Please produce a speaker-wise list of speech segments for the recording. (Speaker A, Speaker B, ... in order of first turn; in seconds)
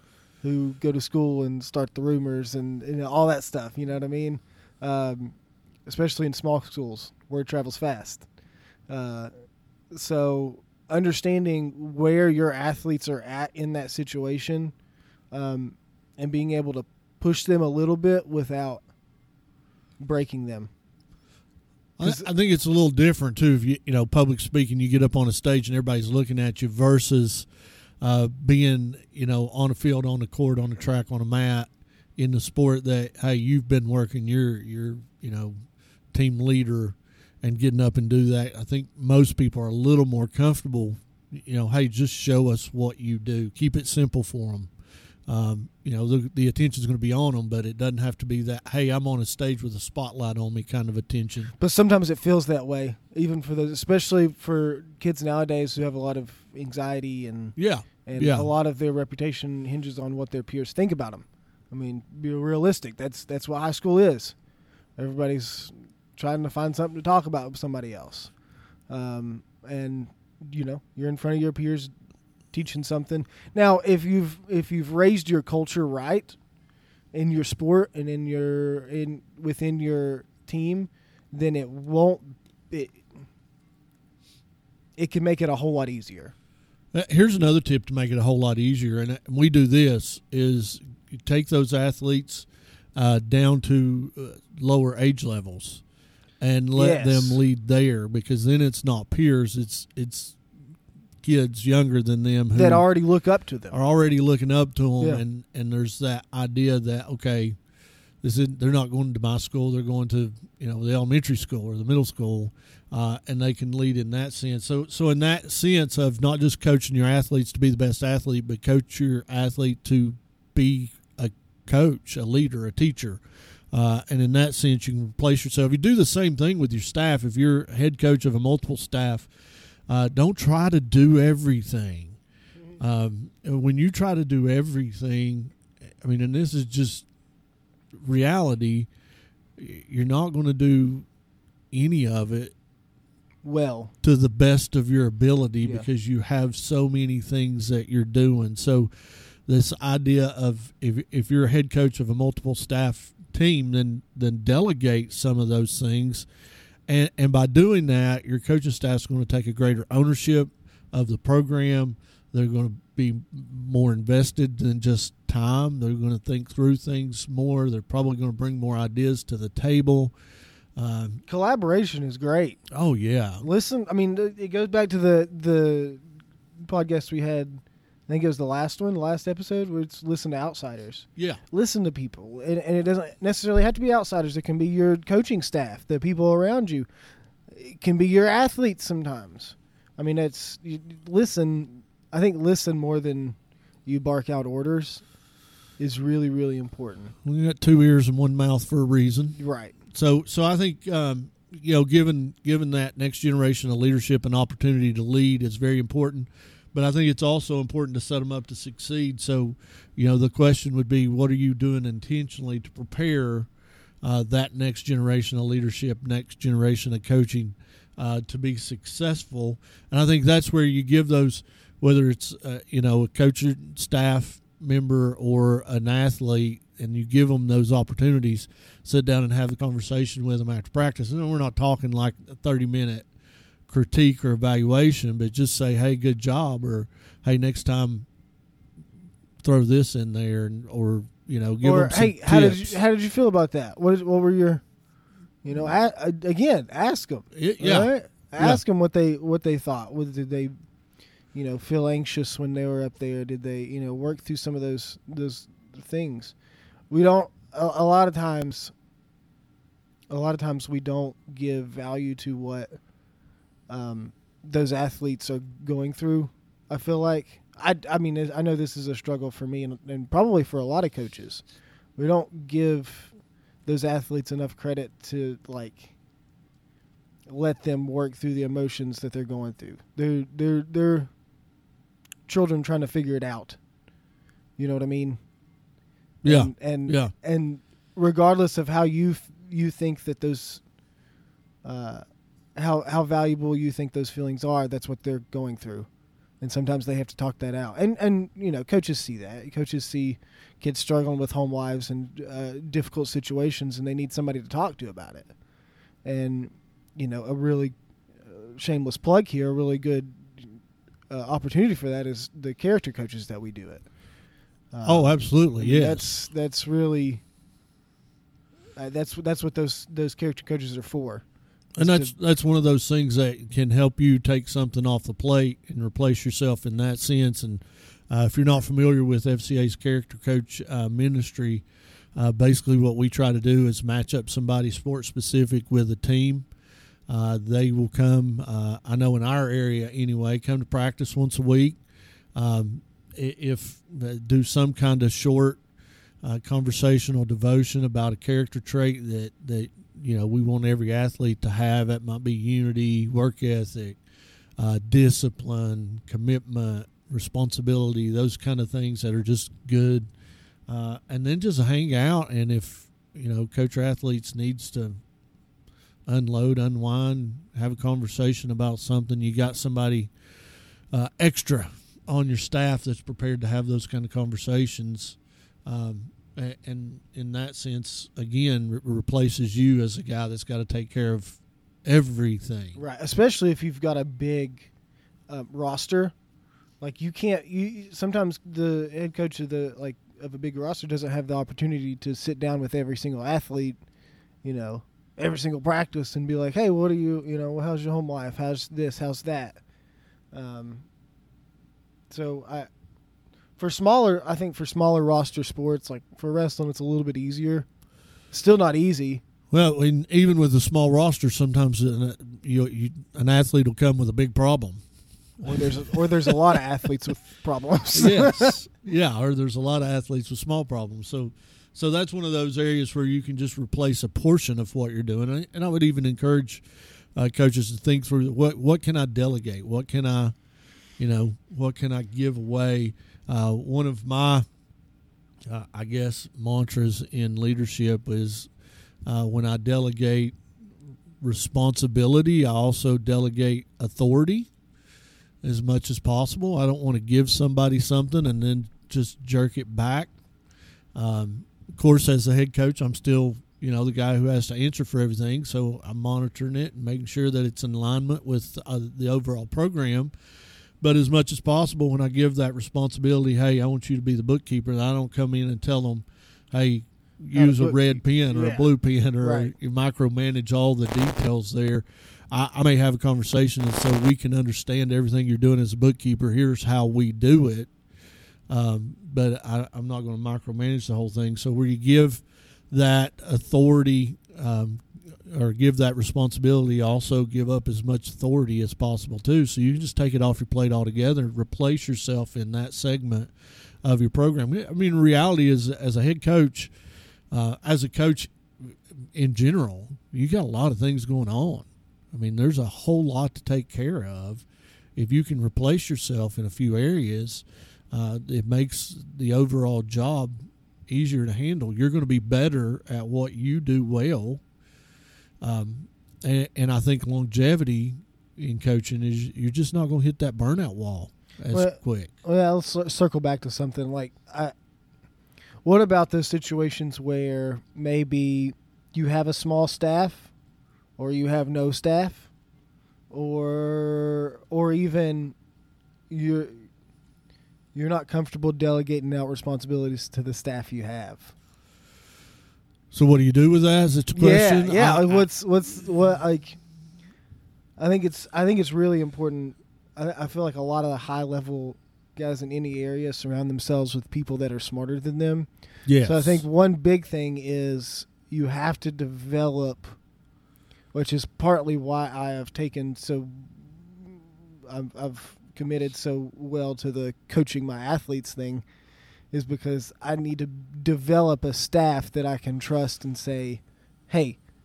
Speaker A: 0.4-8.3, 8.9-9.3, 9.9-14.7, 15.3-18.8, 20.0-20.7, 22.0-22.3, 51.6-64.3, 65.0-68.3, 68.9-71.9, 72.5-76.4, 77.1-83.1, 85.0-86.3, 96.7-97.4, 102.5-103.8, 143.4-143.9, 171.3-172.6, 173.4-176.0, 176.6-186.9, 187.5-195.1, 195.8-197.1, 199.4-199.7, 241.6-244.6, 245.4-250.5, 251.3-256.3, 256.9-258.7, 260.1-262.7, 263.7-271.4, 271.9-273.1, 273.6-275.9, 277.3-281.1, 282.3-283.6, 284.6-285.2, 286.2-290.6, 291.6-292.0, 292.6-295.9, 296.4-305.3, 306.0-310.6, 311.1-313.9, 314.7-317.2, 318.8-321.2, 321.8-322.1, 382.7-384.7, 385.3-386.1, 386.8-393.8, 394.4-399.6, 400.3-400.9, 402.1-402.7, 403.6-407.7, 408.3-409.2, 415.4-418.6, 467.3-468.7, 469.2-469.5, 521.5-524.5, 525.6-530.3, 531.0-532.3, 533.1-535.3, 536.1-536.7, 537.7-541.3, 544.1-546.6, 547.8-560.0, 560.9-568.6, 569.3-574.4
Speaker B: 22.0-27.5, 28.0-35.6, 36.1-44.7, 45.3-51.5, 57.6-58.5, 86.9-95.8, 96.4-100.4, 101.2-102.8, 103.7-107.6, 108.2-129.3, 129.9-132.2, 132.8-137.1, 137.9-138.9, 139.6-141.1, 141.7-142.5, 144.0-156.3, 156.9-170.1, 170.8-171.2, 172.7-173.5, 197.2-199.4, 199.9-213.5, 214.0-233.1, 233.7-238.1, 239.4-242.8, 247.3-248.6, 286.2-287.1, 314.8-316.1, 321.8-331.6, 332.1-336.5, 337.1-341.8, 342.3-345.6, 346.2-354.0, 354.6-360.1, 360.7-365.0, 366.1-370.1, 370.9-382.8, 409.5-414.8, 415.4-416.4, 417.9-430.3, 431.0-434.4, 435.4-438.5, 439.1-440.3, 441.2-444.5, 445.4-450.1, 450.9-460.1, 460.8-477.7, 478.5-493.3, 493.8-496.7, 497.3-504.4, 504.9-514.4, 515.4-522.1, 542.9-545.2, 555.9-556.4